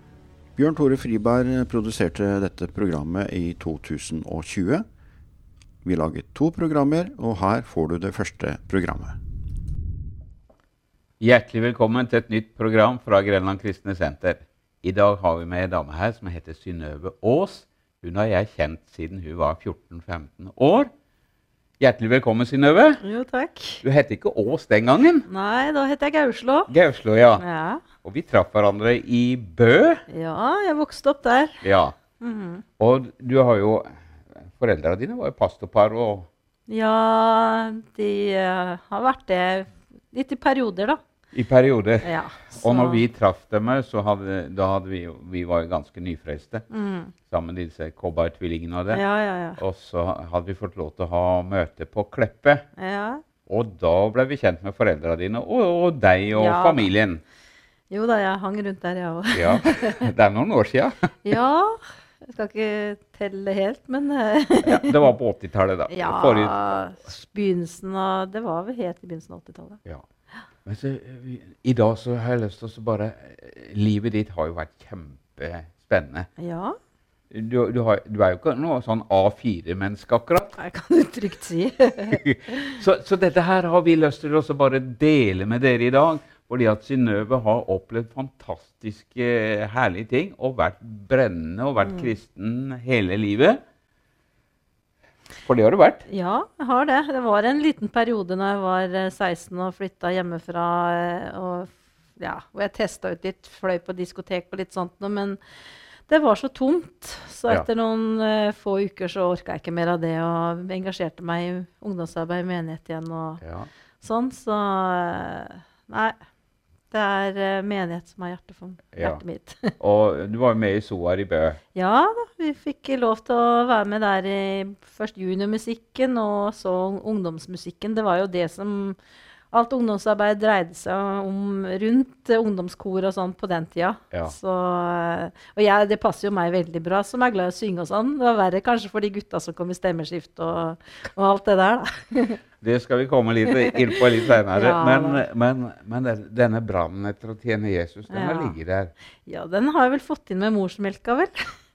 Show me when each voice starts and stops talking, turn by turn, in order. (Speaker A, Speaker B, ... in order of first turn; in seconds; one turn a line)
Speaker A: 0.6-4.8
Speaker A: 5.8-9.2
Speaker B: 11.2-20.9
Speaker B: 21.8-23.0
Speaker C: 23.0-23.8
Speaker B: 23.8-25.3
Speaker C: 25.3-26.7
Speaker B: 26.7-27.4
Speaker C: 27.4-27.8
Speaker B: 28.0-30.0
Speaker C: 30.1-31.6
Speaker B: 31.6-31.9
Speaker C: 32.2-32.6
Speaker B: 32.8-36.3
Speaker C: 36.7-41.0
Speaker B: 41.3-46.6
Speaker C: 42.0-43.0
Speaker C: 46.7-47.1
Speaker B: 47.3-49.0
Speaker C: 48.9-49.6
Speaker B: 49.6-52.6
Speaker C: 52.8-53.2
Speaker B: 53.5-57.2
Speaker C: 56.3-56.9
Speaker C: 57.9-60.1
Speaker B: 59.3-61.1
Speaker C: 61.2-65.0
Speaker B: 64.6-66.8
Speaker C: 65.9-69.8
Speaker B: 70.6-76.3
Speaker C: 76.4-76.8
Speaker B: 77.3-80.5
Speaker C: 80.5-82.8
Speaker B: 82.1-93.6
Speaker C: 91.8-92.1
Speaker B: 95.4-96.0
Speaker C: 96.1-105.4
Speaker C: 106.1-113.4
Speaker B: 113.4-113.7
Speaker C: 114.0-116.2
Speaker C: 116.9-119.8
Speaker B: 118.9-119.2
Speaker B: 119.8-121.6
Speaker C: 121.7-129.0
Speaker C: 129.5-142.4
Speaker B: 142.6-148.9
Speaker C: 143.6-145.2
Speaker C: 148.1-148.6
Speaker C: 149.2-151.6